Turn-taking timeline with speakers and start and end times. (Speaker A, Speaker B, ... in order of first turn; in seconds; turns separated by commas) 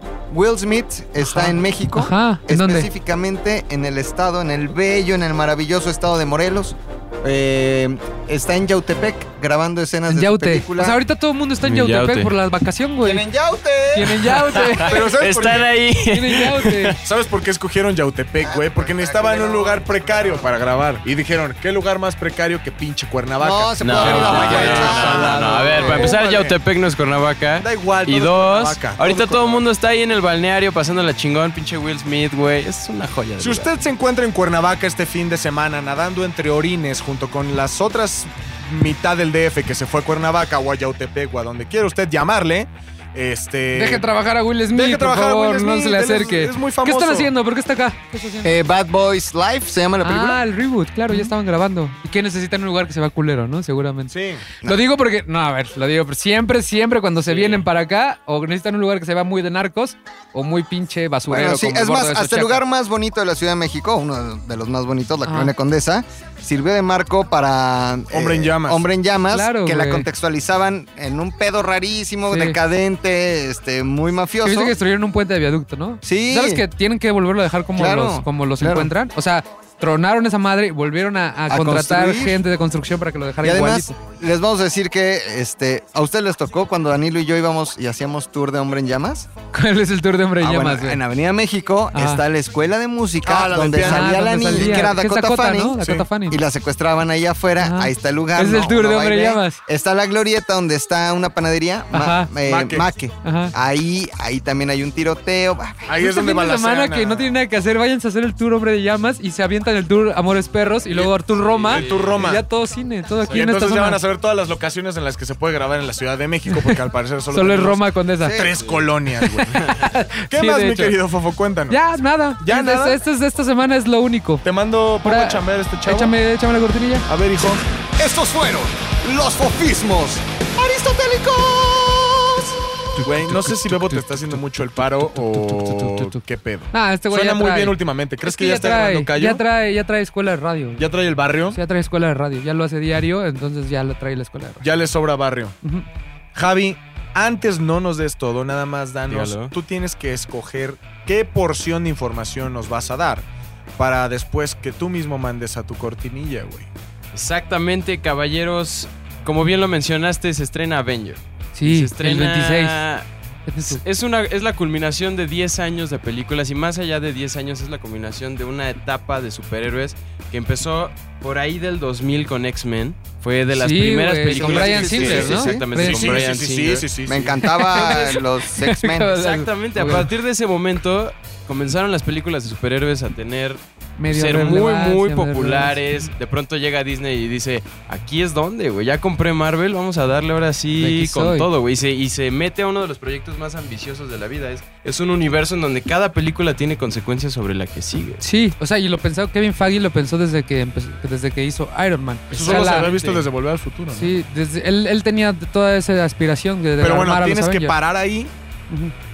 Speaker A: 0.3-11.0, Speaker B: 1.2-2.9, Speaker B: 10.1-13.3, Speaker C: 11.6-12.3, Speaker A: 13.0-14.3, Speaker B: 13.9-15.0, Speaker C: 14.1-17.0, Speaker D: 14.8-15.7, Speaker B: 16.1-17.0, Speaker D: 17.0-26.6, Speaker A: 18.4-20.5, Speaker A: 23.4-26.2, Speaker C: 23.8-33.7, Speaker B: 24.6-26.1, Speaker D: 27.6-29.1, Speaker A: 29.0-29.6, Speaker D: 33.4-44.0, Speaker B: 43.7-48.6, Speaker D: 44.7-47.3, Speaker A: 48.4-50.4, Speaker B: 50.0-62.6, Speaker D: 54.1-54.4, Speaker C: 57.3-57.6, Speaker A: 61.3-74.8, Speaker B: 65.3-65.5, Speaker D: 68.1-68.9, Speaker B: 69.3-70.1, Speaker B: 72.3-72.6, Speaker B: 74.4-84.0, Speaker A: 76.0-76.6, Speaker A: 77.8-78.9, Speaker A: 81.5-82.4, Speaker A: 83.4-89.3, Speaker B: 89.5-91.0, Speaker A: 90.4-106.0, Speaker B: 91.9-92.2, Speaker D: 93.2-94.9, Speaker B: 93.7-96.4, Speaker D: 95.8-96.1, Speaker B: 97.6-99.6, Speaker B: 101.9-102.3, Speaker D: 102.4-102.9, Speaker B: 103.2-103.5, Speaker D: 105.9-107.3, Speaker B: 106.0-114.0, Speaker D: 110.9-112.4, Speaker C: 111.6-112.2, Speaker D: 113.3-119.8, Speaker B: 116.5-116.8, Speaker B: 117.3-118.5, Speaker A: 118.2-118.7, Speaker B: 119.2-121.0, Speaker C: 119.5-119.8, Speaker D: 120.3-121.8, Speaker B: 121.7-124.5, Speaker D: 122.4-123.0, Speaker D: 124.4-126.1, Speaker B: 125.0-127.1, Speaker D: 127.1-127.6, Speaker A: 128.0-132.5, Speaker B: 133.0-134.3, Speaker D: 133.0-139.4, Speaker B: 135.0-136.2, Speaker B: 136.7-140.9, Speaker D: 140.8-141.6, Speaker B: 141.5-144.7, Speaker D: 144.6-145.6, Speaker D: 146.3-153.3, Speaker C: 149.1-149.5, Speaker D: 153.8-156.7, Speaker C: 157.1-163.1, Speaker B: 161.6-162.8, Speaker B: 163.5-163.8, Speaker C: 163.6-176.9, Speaker B: 173.5-176.2, Speaker D: 174.3-177.7, Speaker A: 175.1-175.6, Speaker A: 177.1-179.1, Speaker B: 177.4-180.1, Speaker C: 179.1-198.2, Speaker B: 184.0-185.8, Speaker B: 190.8-191.5, Speaker B: 198.2-202.9, Speaker D: 202.3-204.1, Speaker C: 202.3-203.2, Speaker B: 203.9-207.8, Speaker D: 206.8-208.3